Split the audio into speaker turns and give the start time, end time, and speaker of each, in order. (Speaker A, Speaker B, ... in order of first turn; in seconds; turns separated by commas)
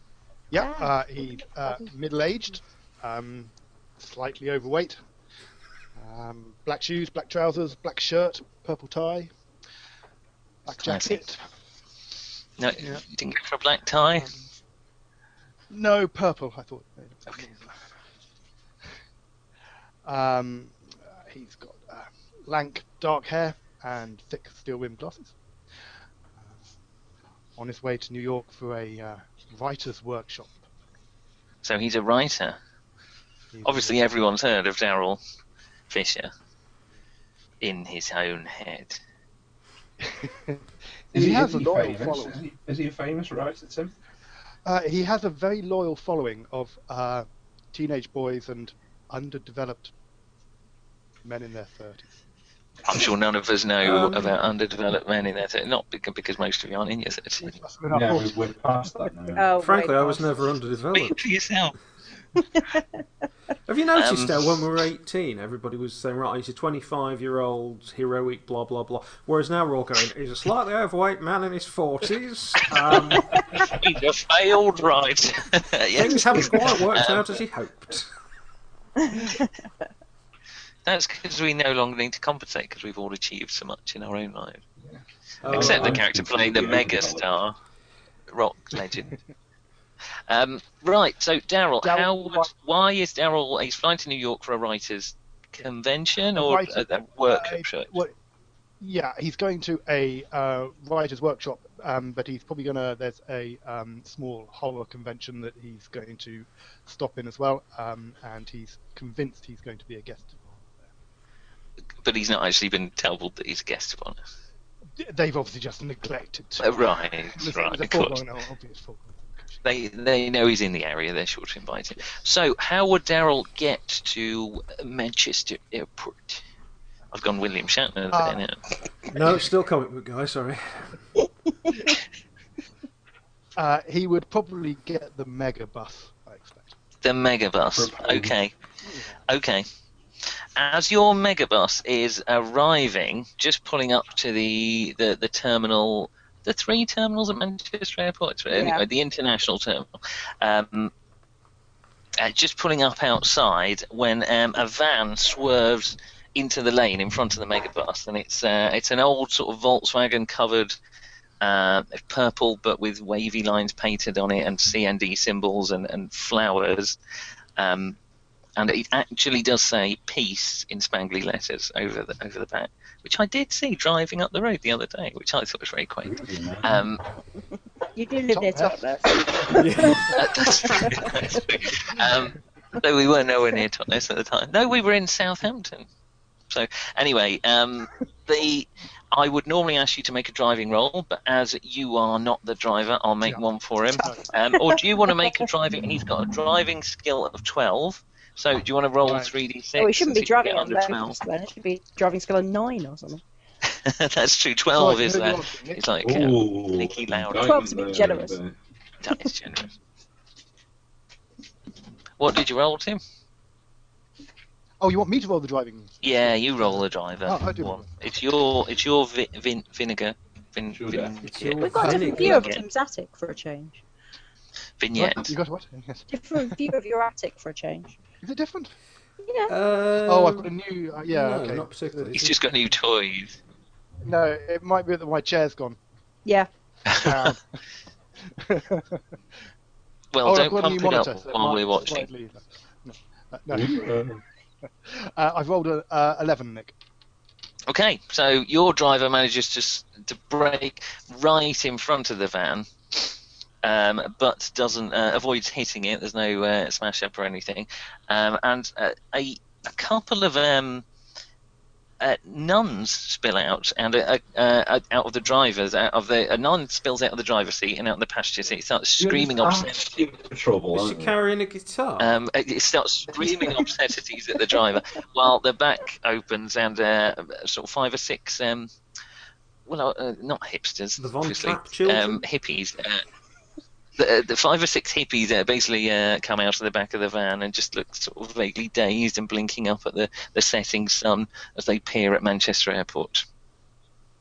Speaker A: 0.5-5.0, Speaker B: 0.6-0.9, Speaker A: 6.0-9.3, Speaker A: 10.6-11.4, Speaker C: 10.8-11.2, Speaker C: 12.6-14.3, Speaker A: 12.8-13.0, Speaker A: 14.2-14.4, Speaker A: 15.7-17.8, Speaker A: 20.0-25.4, Speaker A: 26.4-26.6, Speaker A: 27.6-30.6, Speaker C: 31.6-32.6, Speaker A: 33.5-34.0, Speaker C: 33.6-35.2, Speaker C: 35.9-36.3, Speaker C: 37.6-39.0, Speaker A: 40.0-42.4, Speaker D: 41.1-43.9, Speaker A: 44.6-49.9, Speaker A: 51.2-52.1, Speaker C: 52.9-57.5, Speaker E: 53.8-54.4, Speaker A: 57.4-58.4, Speaker D: 57.9-59.5, Speaker B: 59.3-60.3, Speaker E: 59.6-61.2, Speaker C: 60.9-61.8, Speaker B: 62.5-62.8, Speaker E: 63.7-73.3, Speaker C: 63.9-64.4, Speaker C: 72.7-77.3, Speaker E: 75.9-78.1, Speaker B: 79.0-79.5, Speaker C: 80.8-84.6, Speaker D: 84.8-87.3, Speaker E: 85.4-86.1, Speaker C: 85.5-87.5, Speaker C: 88.3-89.2, Speaker C: 90.3-98.0, Speaker A: 91.8-92.5, Speaker A: 96.3-98.1, Speaker A: 98.8-110.9, Speaker C: 112.0-114.2, Speaker A: 115.0-119.6, Speaker C: 116.6-118.2, Speaker C: 119.6-126.4, Speaker C: 127.1-128.6, Speaker A: 128.1-128.4, Speaker E: 129.1-131.0, Speaker A: 133.6-136.7, Speaker C: 137.0-138.5, Speaker D: 137.7-138.3, Speaker A: 138.8-139.2, Speaker C: 139.3-139.7, Speaker C: 140.6-149.9, Speaker B: 148.5-148.8, Speaker C: 150.4-150.9, Speaker C: 152.2-160.7, Speaker C: 161.4-167.0, Speaker C: 167.6-167.9, Speaker C: 168.6-177.0, Speaker D: 176.0-176.9, Speaker B: 177.9-181.1, Speaker A: 178.3-178.8, Speaker E: 179.5-180.1, Speaker C: 180.1-185.9, Speaker C: 186.5-201.2, Speaker B: 194.0-195.4, Speaker A: 199.0-199.3, Speaker B: 199.8-203.2, Speaker C: 203.7-207.6, Speaker A: 204.7-205.9, Speaker D: 206.0-208.5, Speaker B: 207.3-208.4, Speaker C: 209.0-209.7, Speaker C: 212.2-213.0, Speaker A: 214.8-217.8, Speaker C: 216.0-222.6, Speaker D: 220.7-221.2, Speaker E: 221.2-222.6, Speaker B: 221.6-223.8, Speaker C: 224.8-225.3, Speaker A: 224.9-226.1, Speaker B: 226.1-227.9, Speaker A: 228.2-228.7, Speaker B: 229.2-229.5, Speaker E: 229.5-230.5, Speaker A: 230.0-232.2, Speaker E: 231.1-232.4, Speaker C: 232.2-233.4, Speaker A: 234.0-235.8, Speaker C: 236.8-237.3, Speaker A: 236.9-237.4, Speaker A: 238.4-239.0, Speaker C: 240.1-242.1, Speaker A: 240.2-243.9, Speaker D: 243.5-244.2, Speaker A: 244.8-246.7, Speaker C: 247.7-260.8, Speaker C: 262.0-270.0, Speaker D: 269.0-271.1, Speaker E: 270.7-272.1, Speaker C: 272.0-278.7, Speaker C: 279.6-283.0, Speaker E: 281.0-282.2, Speaker C: 284.0-293.2